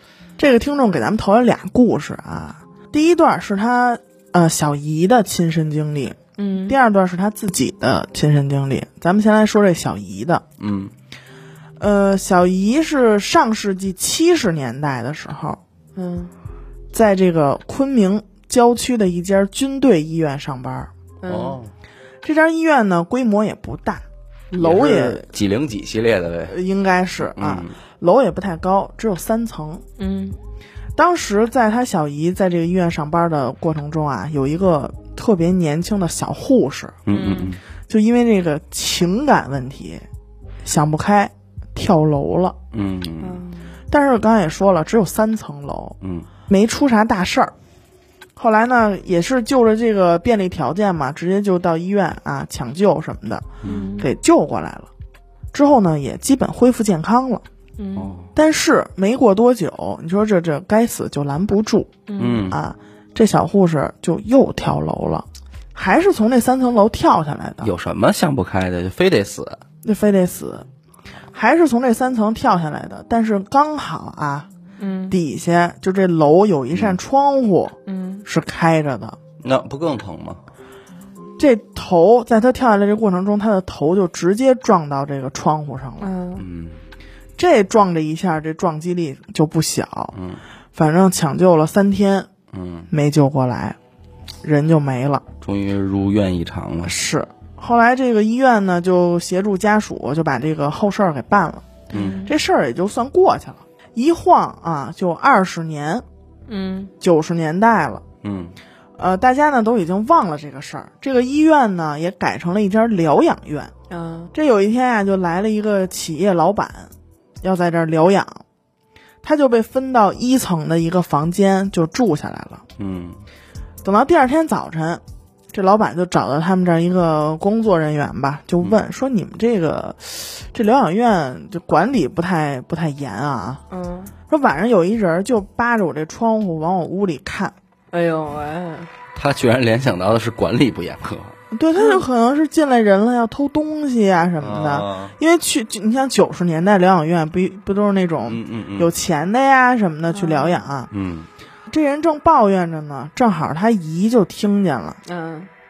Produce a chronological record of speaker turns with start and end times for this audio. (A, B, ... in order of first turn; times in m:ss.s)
0:00.4-0:10.4 A
0:06.4-0:06.8 B
0:10.6-0:10.9 C
0:11.8-0:15.6 A
0:16.0-0:16.3 B
0:16.9-0:20.9 A
0:21.2-0:21.6 B
0:21.3-0:21.7 C
0:22.2-0:25.3 A
0:24.5-0:26.6 C
0:26.5-0:29.8 A
0:27.2-0:27.8 C
0:30.0-0:30.4 B
0:31.0-0:37.0 A
0:37.0-0:37.6 C
0:37.1-0:37.6 B
0:37.9-0:40.0 A
0:40.6-0:42.6 A
0:42.7-0:43.4 C
0:43.2-0:43.7 B
0:43.9-0:46.0 A
0:46.0-0:46.3 C
0:46.5-0:47.5 A
0:48.4-0:54.9 A
0:53.6-0:53.9 C
0:53.6-0:54.1 B
0:55.5-0:57.4 A
0:57.8-0:58.1 B
0:57.9-0:58.3 C
0:58.3-1:01.9 A
1:02.1-1:02.5 B
1:02.2-1:02.6 C
1:02.5-1:07.7 A
1:07.6-1:09.6 C
1:09.8-1:10.7 A
1:11.3-1:14.5 A
1:14.8-1:15.2 B
1:15.1-1:19.2 A
1:16.7-1:17.0 C
1:17.9-1:18.2 B
1:19.4-1:20.4 C
1:21.4-1:26.1 A
1:26.0-1:26.4 B
1:26.4-1:26.8 C
1:27.4-1:30.1 A
1:30.1-1:30.4 C
1:30.8-1:32.3 A
1:32.5-1:32.9 C
1:32.9-1:33.8 A
1:34.4-1:35.2 A
1:35.4-1:36.9 C
1:36.8-1:41.7 A
1:41.9-1:42.3 B
1:41.9-1:42.2 C
1:42.2-1:46.0 A
1:46.5-1:46.9 B
1:47.0-1:48.0 A
1:48.2-1:48.6 C
1:49.0-1:53.7 A
1:53.9-1:54.3 B
1:54.3-1:58.4 A
1:59.2-2:02.6 A
2:02.8-2:03.2 C
2:03.8-2:05.0 A
2:05.5-2:13.6 A
2:13.7-2:14.1 B
2:14.3-2:17.6 A
2:17.9-2:18.9 B
2:19.1-2:21.4 C
2:21.5-2:30.9 A
2:21.8-2:22.0 B
2:24.4-2:25.2 C
2:28.3-2:28.9 C
2:30.1-2:30.6 B
2:30.9-2:31.3 C
2:31.7-2:35.0 A
2:35.1-2:35.5 B